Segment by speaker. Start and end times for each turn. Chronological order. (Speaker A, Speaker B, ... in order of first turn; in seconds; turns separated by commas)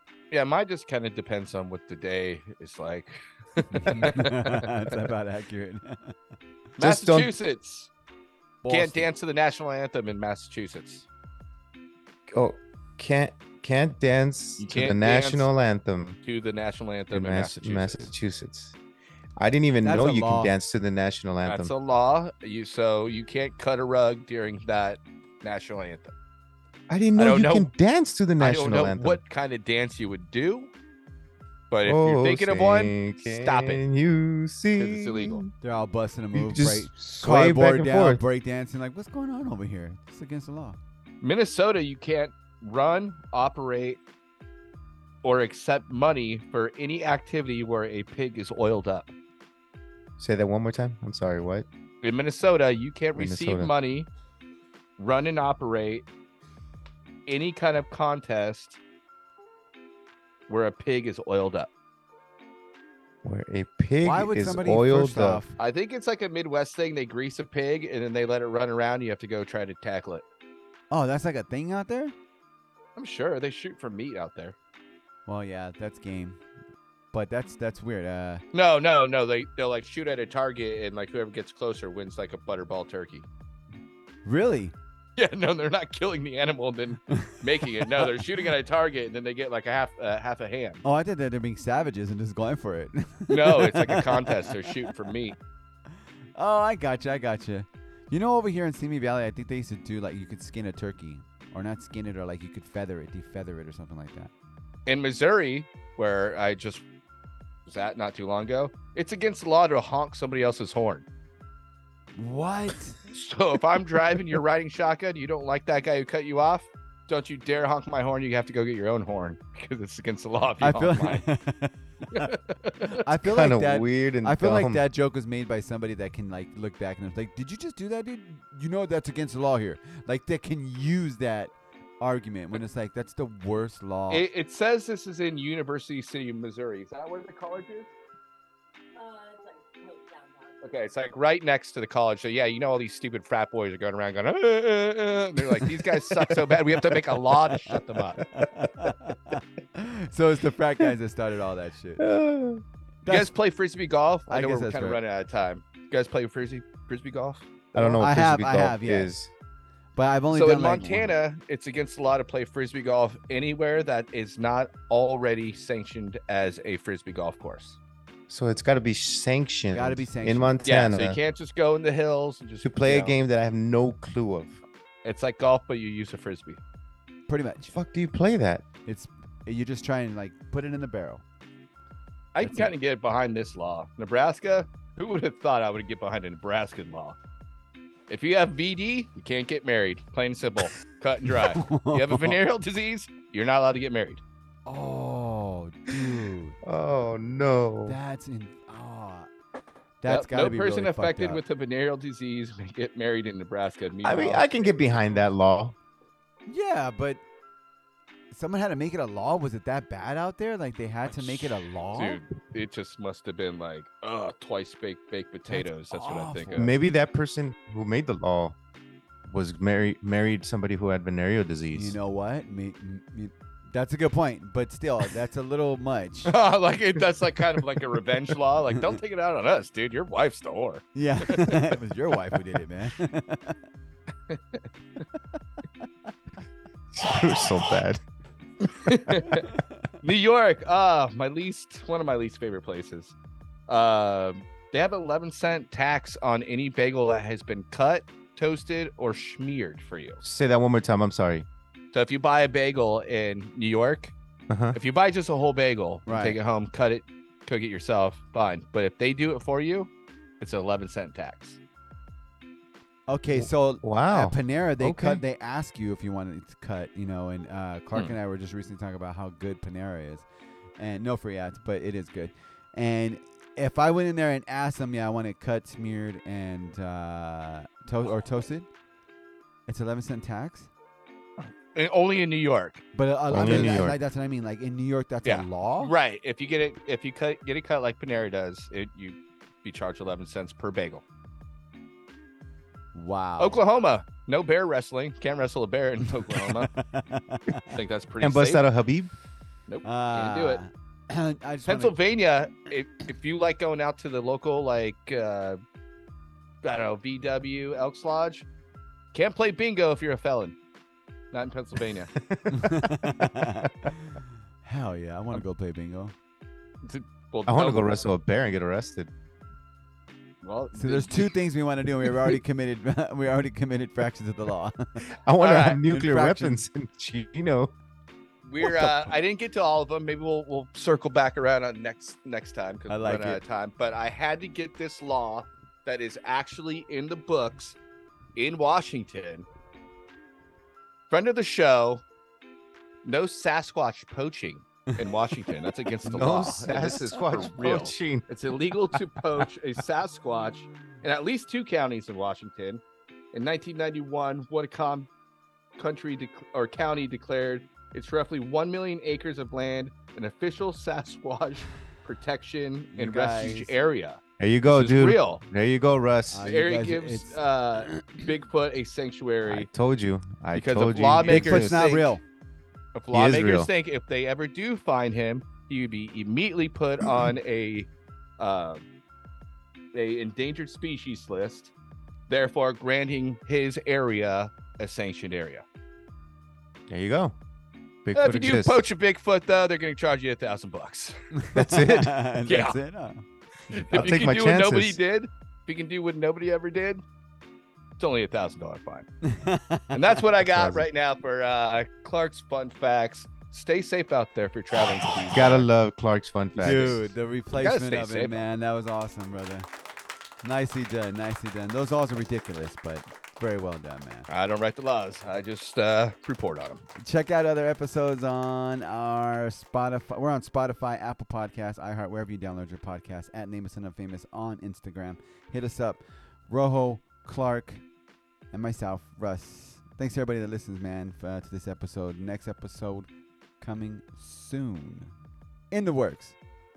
Speaker A: 0.3-4.7, Speaker B: 3.7-6.1, Speaker A: 6.8-7.9, Speaker C: 6.8-7.3, Speaker B: 8.6-9.1, Speaker A: 8.7-11.1, Speaker C: 12.3-16.2, Speaker A: 14.6-15.5, Speaker A: 16.2-18.1, Speaker C: 17.1-18.8, Speaker C: 19.4-21.7, Speaker B: 19.8-20.5, Speaker A: 21.4-26.1, Speaker C: 26.9-29.2, Speaker A: 27.1-27.7, Speaker A: 28.4-30.7, Speaker A: 31.7-33.8, Speaker C: 31.8-35.5, Speaker A: 34.7-35.5, Speaker B: 35.6-40.8, Speaker C: 36.3-38.2, Speaker A: 41.2-44.0, Speaker A: 45.2-49.1, Speaker C: 50.2-51.6, Speaker A: 52.0-54.1, Speaker C: 53.1-53.7, Speaker A: 55.0-56.0, Speaker A: 57.3-58.8, Speaker A: 60.5-61.7, Speaker C: 63.2-65.4, Speaker B: 64.0-65.6, Speaker A: 65.6-70.2, Speaker B: 70.9-72.1, Speaker A: 73.0-74.6, Speaker B: 75.3-76.4, Speaker B: 77.1-78.4, Speaker A: 78.5-83.3, Speaker B: 84.2-84.7, Speaker A: 85.2-90.8, Speaker B: 87.1-88.2, Speaker B: 90.8-94.7, Speaker A: 93.3-95.4, Speaker B: 96.3-104.3, Speaker A: 104.9-106.8, Speaker A: 107.7-111.0, Speaker B: 112.2-113.0, Speaker A: 113.1-121.2, Speaker B: 120.6-122.3, Speaker A: 122.1-123.0, Speaker B: 123.0-134.2, Speaker C: 123.2-124.8, Speaker A: 134.1-137.9, Speaker A: 140.6-148.2, Speaker B: 148.3-152.1, Speaker C: 148.4-148.8, Speaker C: 152.0-152.6, Speaker B: 153.1-153.3, Speaker A: 153.1-157.5, Speaker B: 154.3-155.0, Speaker C: 157.7-159.3, Speaker B: 157.7-159.1, Speaker B: 159.9-161.1, Speaker A: 160.3-167.8, Speaker C: 168.3-171.2, Speaker B: 169.7-170.6, Speaker A: 170.6-173.1, Speaker C: 172.6-174.6, Speaker A: 175.0-176.6, Speaker B: 177.3-177.8, Speaker C: 177.7-178.6, Speaker B: 178.9-181.2, Speaker A: 182.3-187.2, Speaker B: 182.4-182.7, Speaker A: 188.1-194.2, Speaker B: 191.5-192.4, Speaker B: 194.7-196.6, Speaker C: 196.6-198.0, Speaker B: 197.9-199.3, Speaker B: 200.0-201.4, Speaker A: 200.1-204.8, Speaker C: 204.0-205.7, Speaker B: 206.5-207.2, Speaker B: 208.3-212.2, Speaker A: 211.1-216.7, Speaker B: 215.5-216.7, Speaker C: 216.6-218.6, Speaker C: 219.2-222.0, Speaker B: 221.7-226.3, Speaker A: 226.3-231.7, Speaker B: 230.9-233.6, Speaker A: 234.3-234.6, Speaker C: 236.9-238.0, Speaker A: 238.7-239.5, Speaker A: 240.0-243.1, Speaker A: 243.7-250.2, Speaker C: 250.2-251.5, Speaker A: 251.9-254.1, Speaker C: 254.5-254.8, Speaker A: 254.7-259.9, Speaker B: 256.1-256.4, Speaker A: 260.4-261.6, Speaker B: 263.1-270.2, Speaker C: 263.3-265.2, Speaker B: 270.8-278.6, Speaker B: 279.7-280.7, Speaker A: 281.7-283.9, Speaker B: 282.9-285.9, Speaker C: 283.3-284.0, Speaker A: 285.2-291.0, Speaker B: 292.9-293.6, Speaker A: 293.4-296.7, Speaker B: 296.3-297.7, Speaker A: 297.7-298.6, Speaker C: 298.2-299.1, Speaker A: 299.7-300.6, Speaker B: 299.8-301.9, Speaker A: 301.7-305.6, Speaker A: 306.6-308.4, Speaker A: 309.1-310.6, Speaker A: 311.3-312.1, Speaker C: 312.2-313.9, Speaker B: 312.5-316.1, Speaker A: 316.9-318.0, Speaker C: 317.5-319.1, Speaker A: 320.4-321.3, Speaker B: 320.8-324.8, Speaker C: 325.2-327.7, Speaker A: 325.4-325.8, Speaker B: 325.9-326.6, Speaker A: 328.4-337.8, Speaker B: 332.9-333.4, Speaker A: 338.4-339.4, Speaker A: 341.1-342.0, Speaker A: 343.1-352.8, Speaker C: 346.1-348.3, Speaker A: 353.3-355.1, Speaker A: 355.8-365.4, Speaker B: 362.9-363.7, Speaker C: 364.4-366.5, Speaker B: 366.3-367.4, Speaker A: 366.4-369.7, Speaker C: 369.4-371.9, Speaker A: 370.5-372.2, Speaker B: 371.3-372.2, Speaker A: 372.9-378.8, Speaker C: 373.1-373.7, Speaker A: 379.9-381.7, Speaker A: 382.3-385.6, Speaker C: 386.9-387.3, Speaker C: 388.1-388.8, Speaker A: 388.1-391.2, Speaker B: 391.4-393.2, Speaker C: 391.5-392.1, Speaker A: 392.4-392.8, Speaker A: 393.7-397.0, Speaker C: 393.9-395.0, Speaker A: 398.0-399.1, Speaker B: 399.2-400.2, Speaker A: 399.9-405.7, Speaker C: 400.5-400.8, Speaker C: 405.3-407.1, Speaker B: 406.6-409.7, Speaker A: 407.5-408.4, Speaker B: 410.4-414.3, Speaker A: 414.3-416.8, Speaker B: 417.0-427.8, Speaker B: 428.5-433.1, Speaker B: 433.6-435.1, Speaker B: 435.7-436.3